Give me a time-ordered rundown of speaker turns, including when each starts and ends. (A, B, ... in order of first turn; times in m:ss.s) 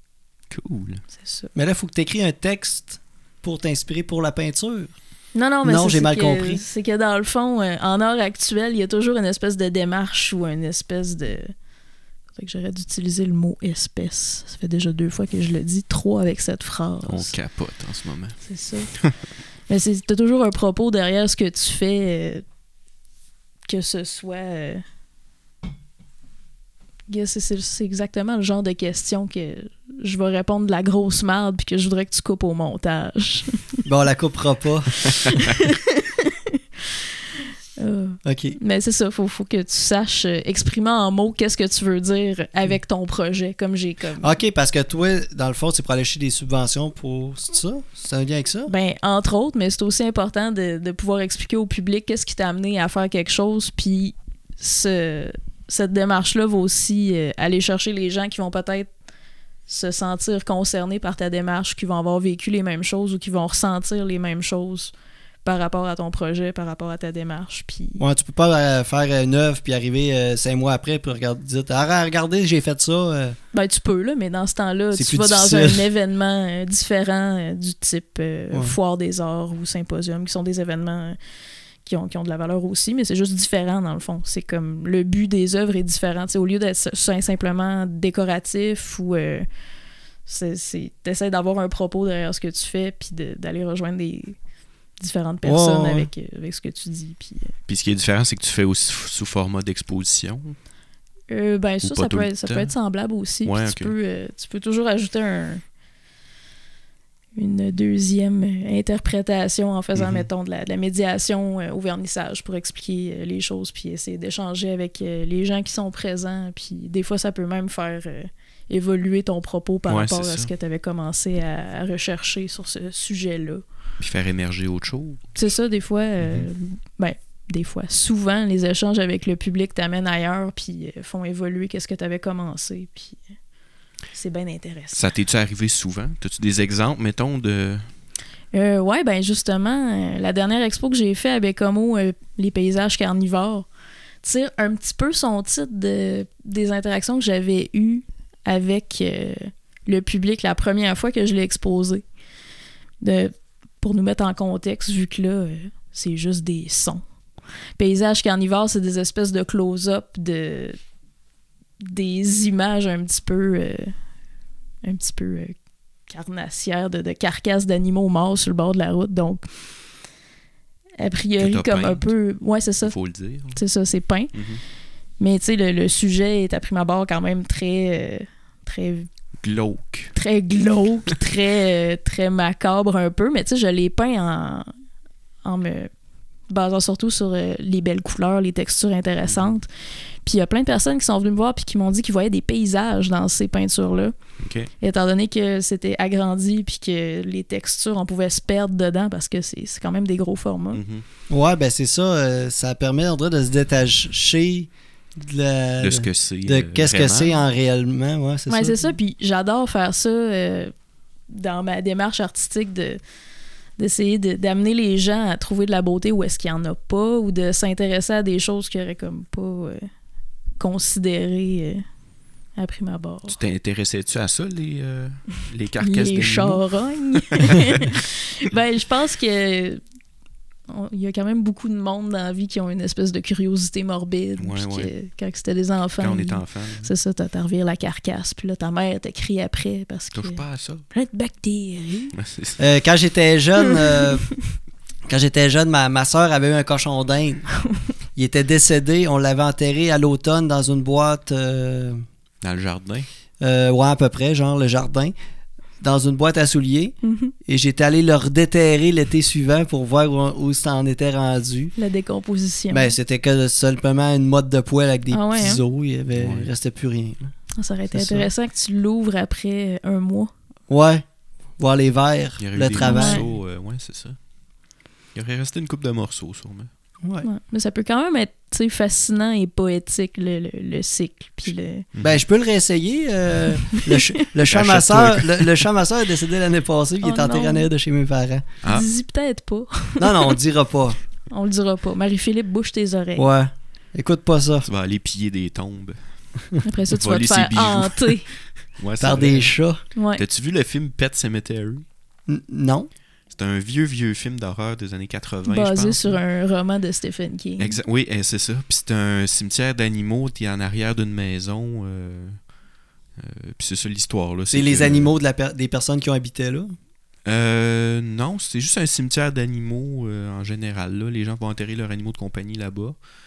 0:00.5-0:01.0 A
0:01.1-0:01.5 B
0:01.5-0:04.9 C
0:05.3-0:11.5 B
0:05.6-0:06.6 C
0:12.3-0:17.4 B
0:17.0-0:18.4 A
0:18.4-0:18.9 B
0:19.7-0:22.4 B
0:23.7-0:24.8 B
0:27.1-0:33.8 B
0:33.8-0:34.9 C
0:35.4-0:36.6 B
0:37.8-0:44.3 B
0:38.2-0:38.6 C
0:44.2-0:48.7 C
0:48.7-0:58.9 B
0:59.7-1:04.9 B
1:05.4-1:08.0 B
1:08.0-1:13.4 C
1:13.5-1:21.2 B
1:14.9-1:15.9 C
1:21.8-1:29.5 B
1:30.2-1:34.4 B
1:35.0-1:37.5 B
1:35.4-1:36.1 C
1:37.7-1:40.6 A
1:41.3-1:45.6 B
1:41.8-1:42.7 A
1:43.4-1:43.9 A
1:47.4-2:03.6 B
1:49.9-1:50.2 A
1:59.9-2:00.5 A
2:04.0-2:05.5 A
2:05.4-2:13.2 B
2:06.2-2:06.5 A
2:14.1-2:15.0 B
2:14.9-2:17.9 A
2:18.5-2:23.7 B
2:24.2-2:32.0 B
2:33.0-2:37.0 B
2:37.8-2:40.8 B
2:41.8-2:43.9 B
2:44.8-2:45.6 B
2:46.1-2:49.5 B
2:51.0-2:52.9 B
2:51.4-2:52.1 A
2:52.8-2:53.6 A
2:53.5-2:54.4 B
2:54.3-2:54.6 A
2:55.2-2:59.1 B
2:59.4-3:00.1 A
3:00.1-3:04.7 B
3:05.4-3:05.9 B
3:06.5-3:14.1 B
3:09.2-3:09.5 A
3:14.4-3:14.7 A
3:14.8-3:20.8 B
3:20.7-3:21.0 A
3:21.3-3:28.9 C
3:25.8-3:27.4 A
3:28.5-3:30.7 B
3:31.3-3:33.0 B
3:33.8-3:39.9 B
3:40.6-3:41.8 B
3:42.6-3:43.4 B
3:43.3-3:47.8 A
3:45.8-3:49.8 B
3:50.7-4:02.1 B
3:54.4-3:54.9 A
3:56.0-3:56.9 A
4:00.1-4:00.8 A
4:02.1-4:02.6 A
4:02.6-4:04.3 C
4:05.1-4:07.5 C
4:08.2-4:12.0 C
4:12.4-4:13.1 A
4:13.4-4:15.1 C
4:15.8-4:21.7 C
4:17.0-4:17.3 B
4:21.8-4:22.9 B
4:22.7-4:27.3 C
4:25.1-4:25.6 B
4:26.1-4:26.5 A
4:27.6-4:30.3 B
4:27.9-4:28.3 C
4:30.7-4:31.0 C
4:31.6-4:33.2 C
4:32.4-4:34.2 A
4:32.8-4:33.2 B
4:35.1-4:36.7 A
4:37.0-4:37.3 C
4:37.2-4:41.8 B
4:41.9-4:42.2 A
4:42.0-4:48.5 C
4:43.7-4:44.1 B
4:44.5-4:45.6 A
4:47.0-4:47.7 B
4:48.6-4:50.4 B
4:50.0-4:51.0 C
4:51.3-4:53.3 B
4:53.2-4:54.7 C
4:54.6-5:01.8 A
4:56.6-4:58.3 B
4:59.0-4:59.8 C
4:59.9-5:00.2 B
5:02.3-5:02.9 C
5:03.3-5:06.2 A
5:05.4-5:07.8 B
5:07.6-5:12.5 A
5:13.2-5:15.1 A
5:14.5-5:16.7 C
5:17.2-5:23.0 A